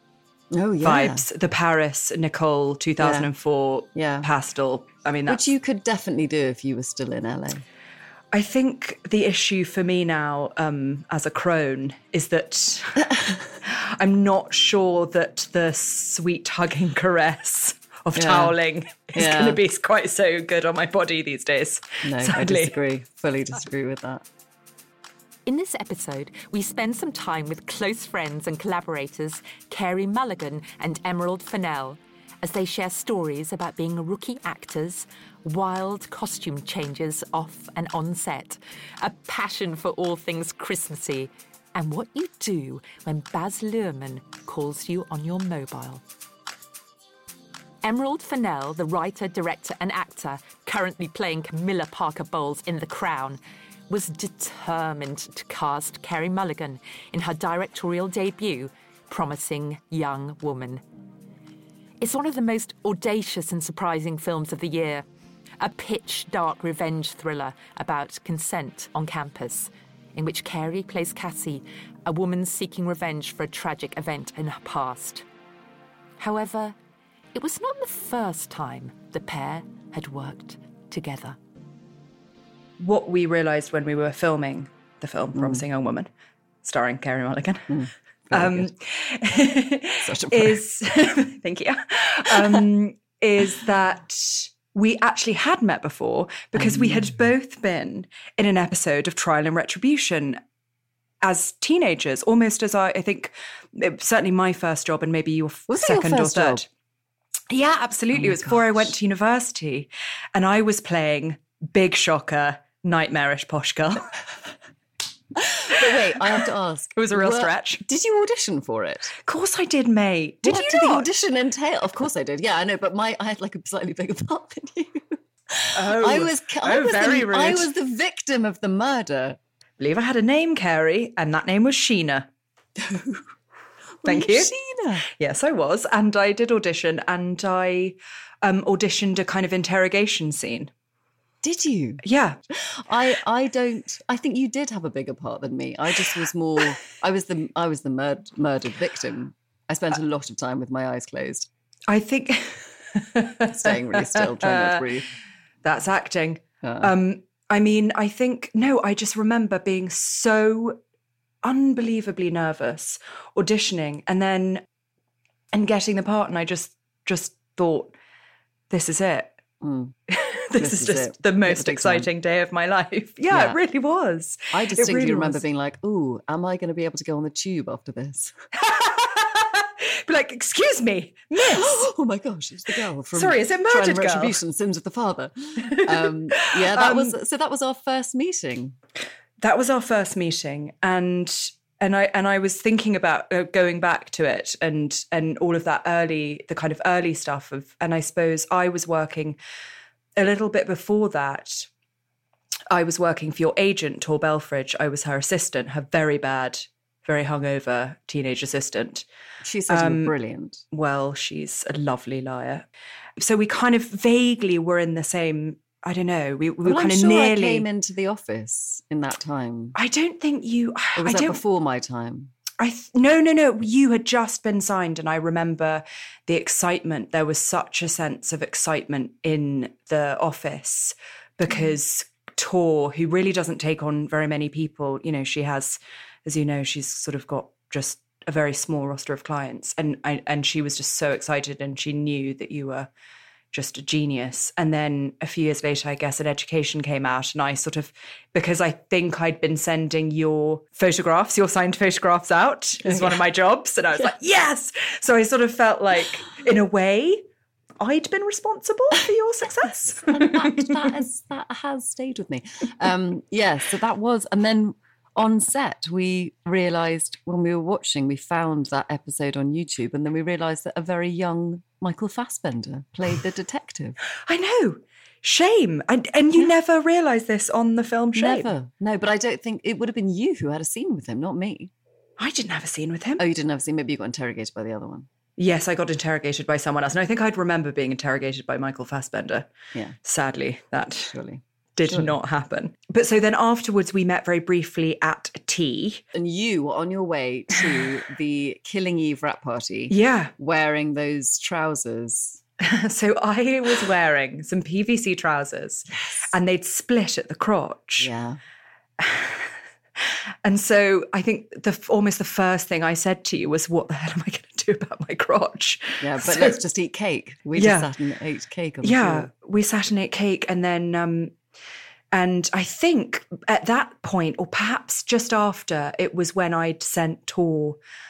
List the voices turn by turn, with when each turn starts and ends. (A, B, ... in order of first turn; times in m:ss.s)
0:00.5-0:01.2 A
0:00.8-0:05.4 B
0:03.0-0:03.3 A
0:03.9-0:04.3 A
0:05.3-0:07.6 A
0:08.3-0:13.1 B
0:13.0-0:13.6 A
0:13.6-0:22.8 B
0:18.1-0:18.5 A
0:19.1-0:19.6 A
0:22.0-0:24.2 A
0:25.4-0:46.0 C
0:47.8-1:00.8 C
1:02.0-1:05.0 C
1:05.6-1:15.2 C
1:16.2-1:16.8 C
1:17.3-1:21.4 C
1:22.8-1:26.1 B
1:25.3-1:25.6 A
1:26.6-1:27.8 B
1:27.7-1:28.7 A
1:28.3-1:40.4 B
1:30.0-1:30.6 A
1:32.3-1:32.6 A
1:36.6-1:37.1 A
1:41.2-1:46.6 B
1:45.7-1:46.6 A
1:47.5-1:54.1 B
1:48.1-1:48.9 A
1:55.4-1:59.1 A
1:55.7-1:57.8 B
1:59.2-2:01.2 B
2:00.4-2:09.4 A
2:05.7-2:07.7 B
2:09.8-2:12.3 B
2:12.8-2:13.2 A
2:14.0-2:15.1 A
2:14.0-2:14.5 B
2:15.1-2:20.7 B
2:21.4-2:31.5 A
2:22.0-2:22.4 B
2:31.9-2:35.0 B
2:33.5-2:35.1 A
2:35.6-2:40.8 B
2:36.6-2:36.9 A
2:41.4-2:44.6 B
2:45.5-2:47.9 B
2:48.7-2:49.3 B
2:49.6-2:49.9 A
2:50.1-2:55.4 B
2:50.6-2:52.1 A
2:53.3-2:53.6 A
2:54.5-2:58.3 A
2:58.6-3:01.8 B
3:01.4-3:08.8 A
3:03.1-3:04.4 B
3:05.7-3:07.1 B
3:09.4-3:19.4 B
3:20.2-3:21.7 B
3:22.7-3:29.0 B
3:29.4-3:30.6 A
3:29.7-3:30.1 B
3:30.7-3:32.6 B
3:33.2-3:37.6 B
3:36.6-3:39.8 A
3:39.8-3:41.4 B
3:41.0-3:42.3 A
3:42.6-4:02.9 B
4:03.5-4:17.2 B
4:12.8-4:13.2 A
4:17.8-4:20.8 B
4:20.1-4:34.0 A
4:34.2-4:38.5 B
4:38.1-4:41.7 A
4:42.2-4:43.2 B
4:43.2-4:45.1 A
4:45.4-4:49.5 B
4:50.0-4:51.1 B
4:51.0-4:52.1 A
4:51.8-4:56.0 B
4:56.1-5:02.4 A
4:59.9-5:00.3 B
5:02.6-5:08.1 B
5:06.0-5:06.2 A
5:08.0-5:08.4 A
5:09.0-5:16.6 B
5:16.0-5:19.3 A
5:17.6-5:17.9 B
5:18.8-5:21.3 B
5:22.1-5:27.8 B